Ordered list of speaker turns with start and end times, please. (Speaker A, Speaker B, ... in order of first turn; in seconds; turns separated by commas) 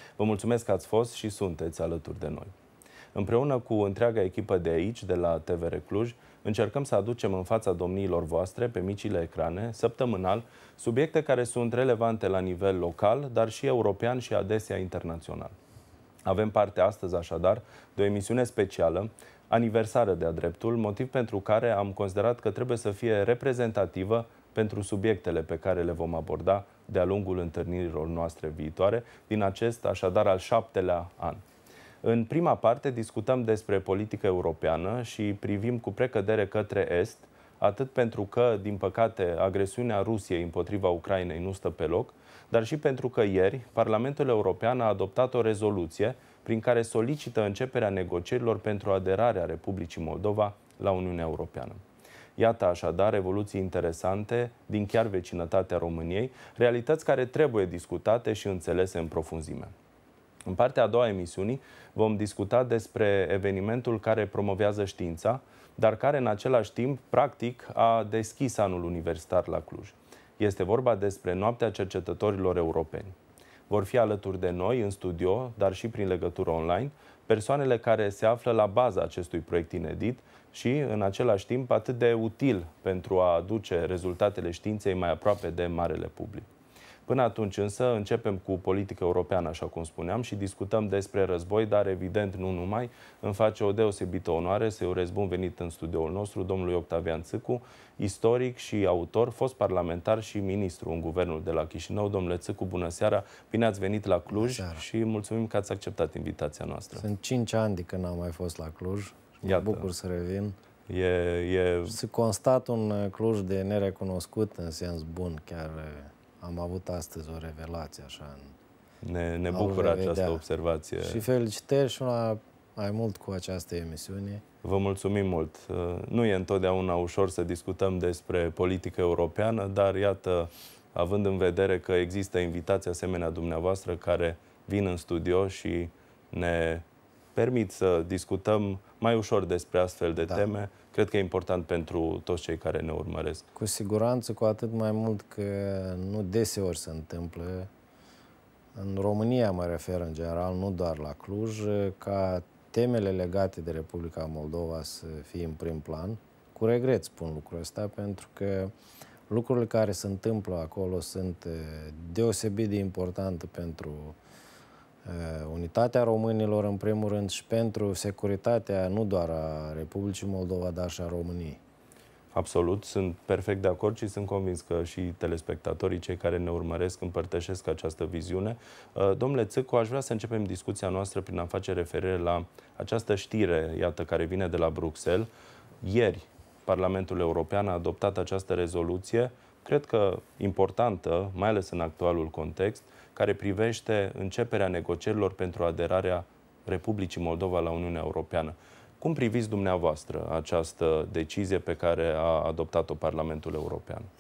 Speaker A: 0.2-2.5, Speaker A: 3.1-15.6, Speaker A: 16.2-31.4, Speaker A: 32.0-51.8, Speaker A: 52.4-59.7, Speaker A: 60.5-73.2, Speaker A: 73.7-86.5, Speaker A: 87.1-107.0, Speaker B: 104.3-104.8, Speaker B: 107.0-110.6, Speaker A: 109.4-109.9, Speaker A: 110.9-112.0, Speaker B: 111.9-118.5, Speaker A: 119.0-121.2, Speaker B: 119.5-120.4, Speaker B: 121.0-124.4, Speaker A: 124.6-136.8, Speaker A: 137.3-143.5, Speaker B: 143.6-147.7, Speaker B: 148.8-158.7, Speaker B: 159.3-164.2, Speaker B: 165.1-171.6, Speaker A: 172.3-185.3, Speaker A: 185.8-204.1